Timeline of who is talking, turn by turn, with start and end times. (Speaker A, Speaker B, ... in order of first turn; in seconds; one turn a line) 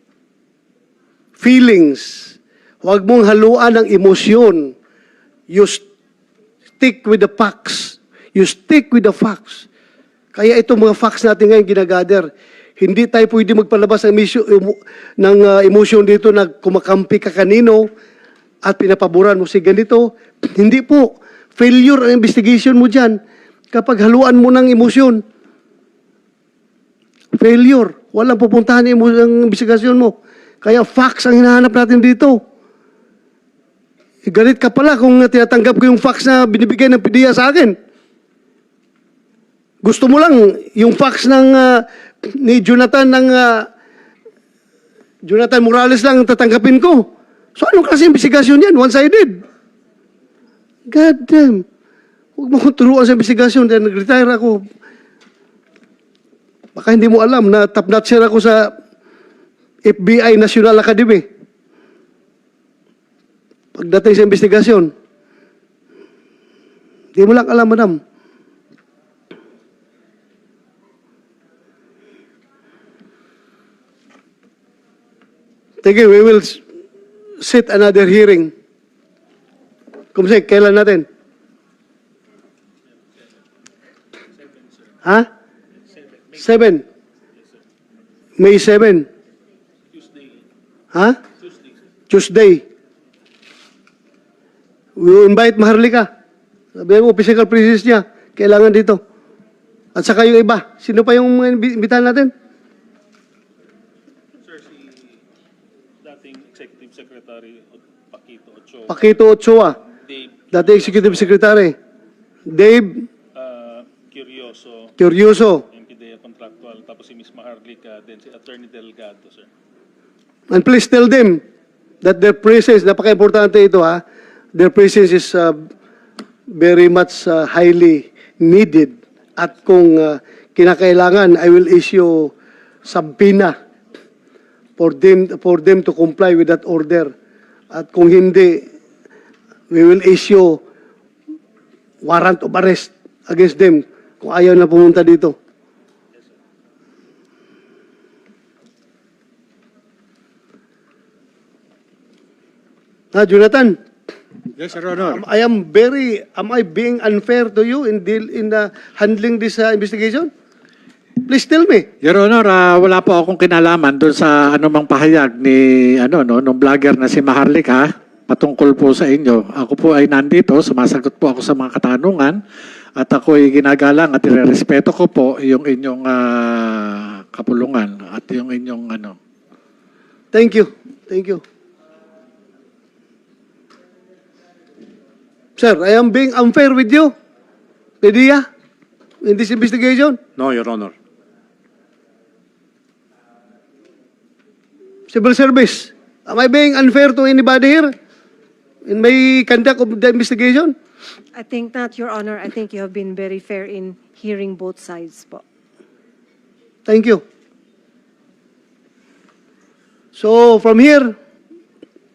Speaker A: 1.4-4.7
Speaker A: 5.5-5.8
Speaker A: 6.8-9.7
Speaker A: 10.3-17.9
Speaker A: 18.6-23.2
Speaker A: 23.7-25.2
Speaker A: 27.4-32.4
Speaker A: 34.3-37.8
Speaker A: 39.8-43.7
Speaker A: 45.3-49.4
Speaker A: 50.9-51.6
Speaker A: 52.4-54.6
Speaker A: 56.8-58.7
Speaker A: 59.9-61.2
Speaker A: 63.8-64.9
Speaker A: 67.2-68.0
Speaker A: 75.8-76.6
Speaker A: 77.4-78.5
Speaker A: 80.2-81.1
Speaker A: 86.4-86.8
Speaker A: 88.4-89.1
Speaker A: 92.1-92.6
Speaker A: 95.0-96.1
Speaker A: 96.8-99.0
Speaker A: 100.0-102.3
Speaker B: 106.1-109.0
Speaker A: 108.9-109.8
Speaker B: 110.5-111.2
Speaker A: 110.5-111.8
Speaker A: 112.5-113.1
Speaker B: 113.4-114.9
Speaker A: 115.0-115.7
Speaker B: 115.7-119.5
Speaker A: 120.5-121.4
Speaker A: 122.0-124.0
Speaker A: 124.5-125.6
Speaker A: 126.5-132.3
Speaker A: 132.8-133.5
Speaker A: 134.8-137.1
Speaker A: 137.7-138.6
Speaker A: 139.7-140.6
Speaker A: 142.1-145.3
Speaker A: 153.1-153.8
Speaker C: 154.6-155.2
Speaker A: 155.0-160.3
Speaker A: 161.2-161.9
Speaker C: 162.0-172.4
Speaker C: 173.0-179.2
Speaker A: 180.3-181.4
Speaker A: 185.6-187.1
Speaker A: 188.0-188.4
Speaker A: 189.2-190.9
Speaker A: 195.1-197.9
Speaker A: 198.9-200.7
Speaker D: 201.4-205.4
Speaker A: 206.9-207.2
Speaker A: 210.2-211.1